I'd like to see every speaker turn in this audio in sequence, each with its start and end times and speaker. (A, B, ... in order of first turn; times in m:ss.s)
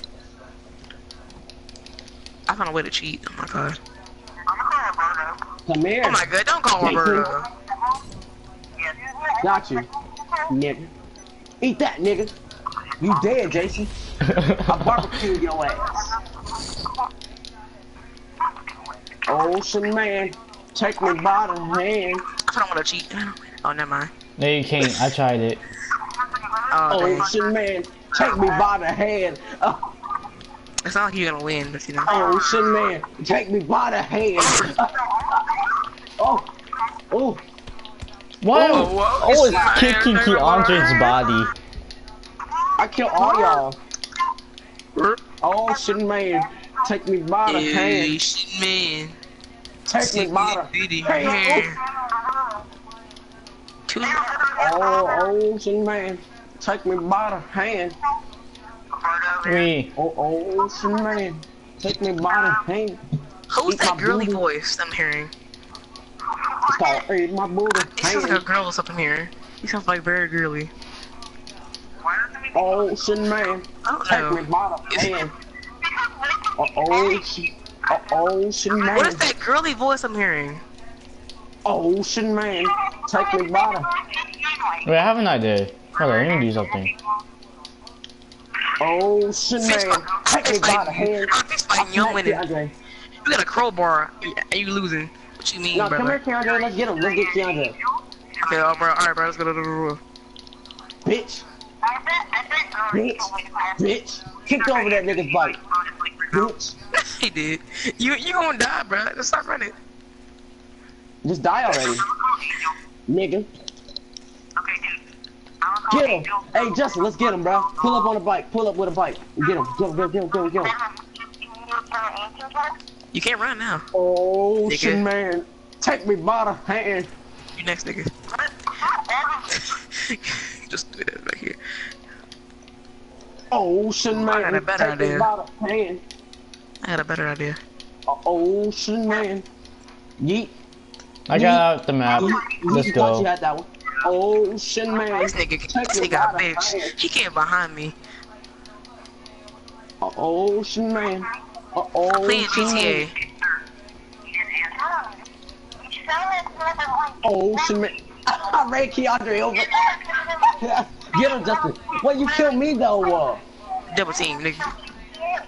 0:02.5-0:03.8 A
0:04.4-0:05.5 B
0:05.7-0:06.2 C
0:06.0-0:07.5 A
0:06.8-0:07.3 C
0:08.8-0:09.8 B
0:09.4-0:09.9 C
0:10.5-0:10.9 C
0:11.6-0:12.3 C
0:13.0-0:13.9 C
0:13.0-0:13.7 B
0:14.2-0:15.1 D
0:14.6-0:16.0 C
0:19.3-0:22.2 C
0:22.4-0:24.1 A
0:24.4-0:25.6 D
0:26.3-0:27.5 B
0:26.7-0:27.3 A
0:26.9-0:29.8 C
0:28.1-0:28.6 B
0:30.8-0:32.2 A
0:32.0-0:32.8 B
0:32.0-0:35.0 C
0:34.4-0:34.8 A
0:35.1-0:35.7 B
0:36.2-0:36.5 C
0:37.1-0:37.4 C
0:38.4-0:41.5 D
0:38.5-0:41.1 A
0:39.5-0:39.8 B
0:40.8-0:41.0 B
0:42.8-0:43.6 B
0:42.8-0:43.8 C
0:44.9-0:45.2 A
0:45.4-0:48.1 C
0:45.7-0:46.7 B
0:47.4-0:49.2 A
0:49.9-0:51.7 C
0:50.0-0:51.8 A
0:51.2-0:52.6 B
0:53.9-0:54.3 A
0:54.0-0:55.2 B
0:54.5-0:57.9 C
0:58.9-0:59.7 B
0:59.4-0:59.9 D
1:00.0-1:03.0 C
1:00.6-1:01.2 B
1:02.2-1:02.6 B
1:03.5-1:05.3 A
1:03.6-1:04.4 C
1:06.4-1:07.0 B
1:06.7-1:08.4 C
1:07.8-1:10.7 A
1:12.0-1:13.4 B
1:12.5-1:15.3 C
1:13.8-1:15.1 A
1:15.8-1:17.2 B
1:16.6-1:19.3 C
1:18.7-1:19.0 B
1:18.9-1:20.6 A
1:21.6-1:23.9 C
1:22.7-1:24.8 B
1:24.8-1:26.9 D
1:25.9-1:27.1 B
1:28.8-1:32.7 C
1:29.6-1:32.4 A
1:33.2-1:36.2 A
1:35.7-1:37.7 C
1:36.4-1:38.9 B
1:38.4-1:40.0 A
1:41.0-1:41.4 C
1:41.8-1:43.9 B
1:42.9-1:45.6 C
1:44.4-1:46.5 B
1:46.3-1:46.8 C
1:46.9-1:49.7 A
1:51.2-1:52.0 C
1:51.8-1:52.8 B
1:53.1-1:53.5 C
1:54.6-1:55.0 B
1:55.6-1:58.1 B
1:55.9-2:00.7 C
1:59.4-2:02.8 B
2:03.1-2:03.8 A
2:03.9-2:07.1 C
2:04.7-2:05.0 A
2:07.5-2:08.1 A
2:08.3-2:09.6 B
2:09.5-2:11.6 A
2:13.5-2:16.0 C
2:14.1-2:15.3 A
2:16.8-2:17.6 A
2:18.1-2:19.4 C
2:20.2-2:20.5 C
2:21.3-2:23.3 D
2:21.3-2:21.6 C
2:22.1-2:22.9 B
2:22.2-2:26.9 C
2:25.1-2:27.9 A
2:30.0-2:33.1 C
2:32.1-2:33.1 A
2:32.5-2:33.6 B
2:34.3-2:35.2 B
2:35.8-2:37.9 B
2:37.2-2:39.9 C
2:39.6-2:40.6 B
2:40.6-2:43.4 C
2:41.1-2:42.6 B
2:43.9-2:44.7 A